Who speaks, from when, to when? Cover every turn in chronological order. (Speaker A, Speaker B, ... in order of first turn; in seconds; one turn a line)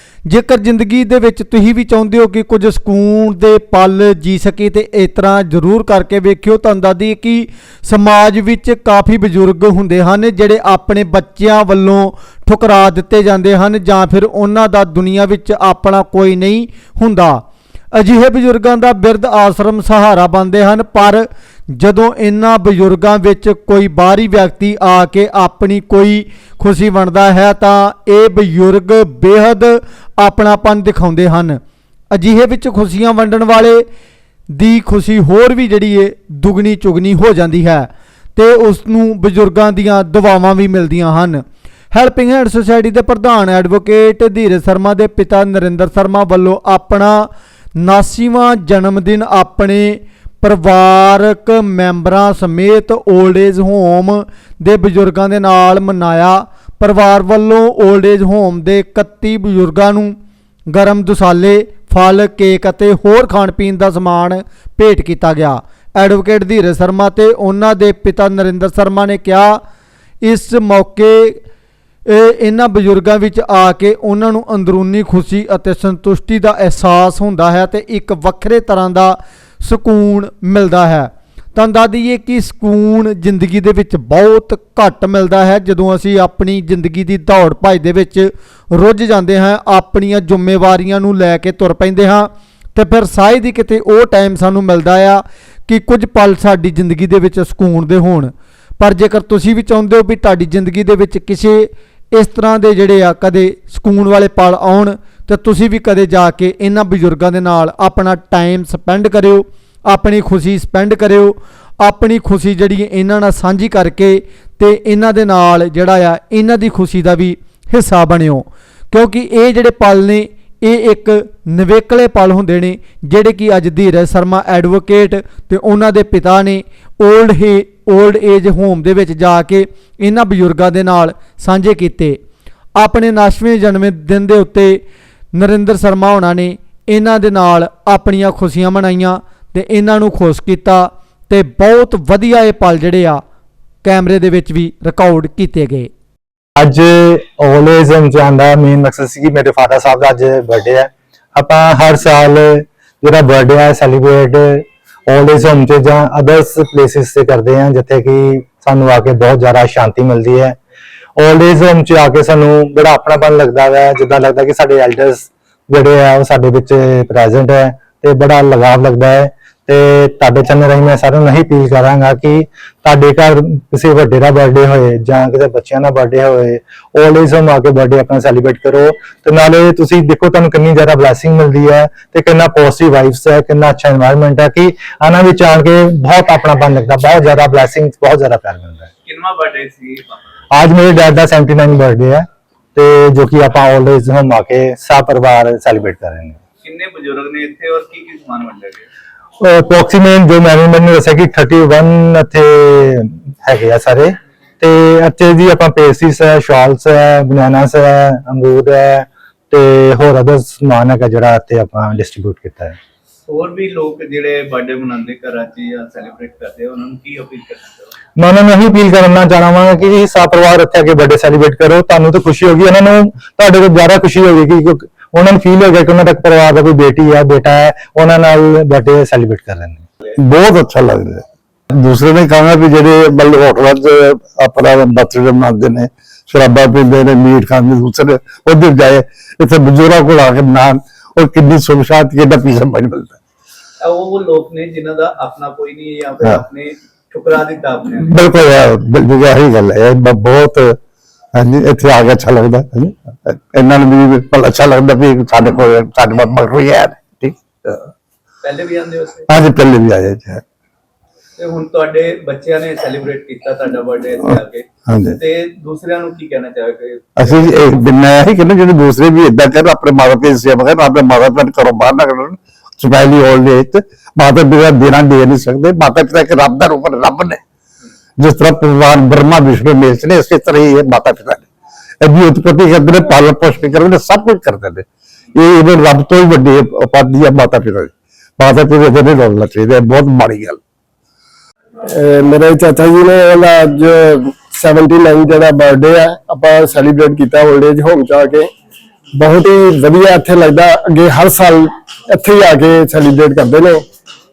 Speaker A: 0.2-31.6
Speaker A: 32.1-33.8
Speaker A: 34.5-60.1
Speaker A: 60.7-69.6
Speaker A: 70.2-71.4
Speaker A: 72.1-132.2
Speaker A: 132.8-134.8
Speaker A: 135.3-143.2
Speaker A: 143.8-145.9
Speaker B: 146.6-160.6
Speaker B: 161.2-188.9
Speaker C: 189.0-190.4
Speaker B: 190.5-196.4
Speaker C: 196.6-198.9
Speaker B: 199.4-212.8
Speaker C: 213.3-217.9
Speaker B: 218.2-229.8
Speaker D: 230.2-243.2
Speaker C: 243.8-248.2
Speaker D: 248.0-250.8
Speaker D: 251.3-257.9
Speaker C: 258.4-259.3
Speaker D: 259.3-260.4
Speaker C: 261.4-267.7
Speaker D: 264.9-265.2
Speaker D: 267.2-277.4
Speaker D: 278.2-281.4
Speaker D: 282.0-290.6
Speaker E: 291.9-298.5
Speaker E: 299.2-303.8